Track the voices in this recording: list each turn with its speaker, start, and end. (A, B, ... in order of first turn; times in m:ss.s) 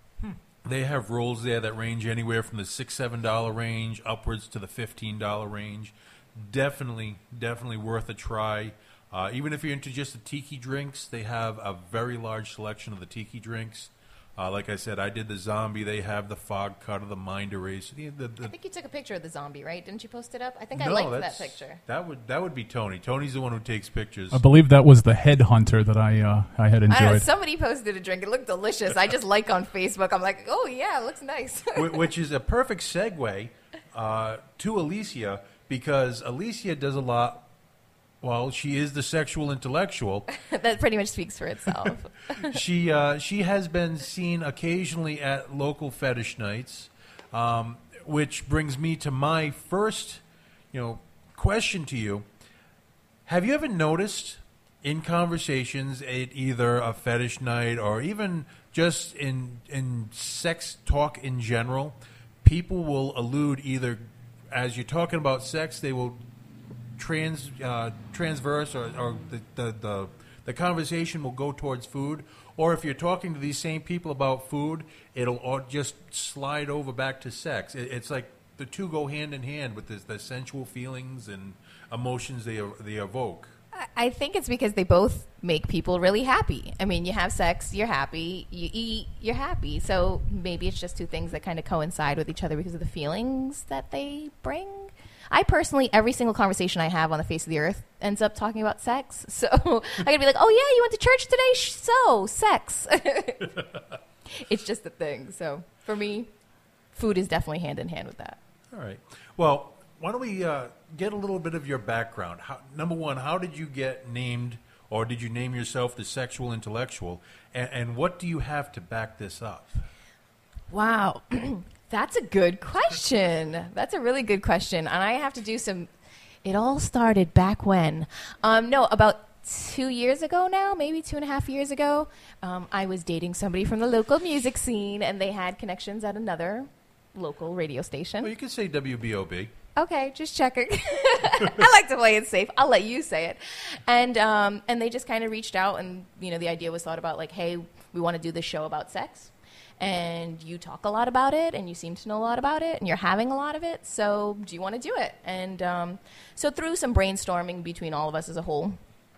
0:00.6-0:18.5 A
0:18.4-0:21.8 B
0:20.7-0:24.4 A
0:24.3-0:27.2 C
0:26.9-0:32.0 B
0:31.8-0:37.5 A
0:38.2-0:40.3 A
0:40.3-0:42.6 B
0:42.4-0:52.2 A
0:53.2-1:06.2 A
1:07.0-1:23.5 A
1:23.7-1:43.6 B
1:44.3-1:46.3 B
1:46.9-1:48.4 B
1:48.7-1:59.8 A
2:00.7-2:05.9 B
2:06.4-2:18.3 B
2:18.2-2:19.5 A
2:19.8-2:38.8 B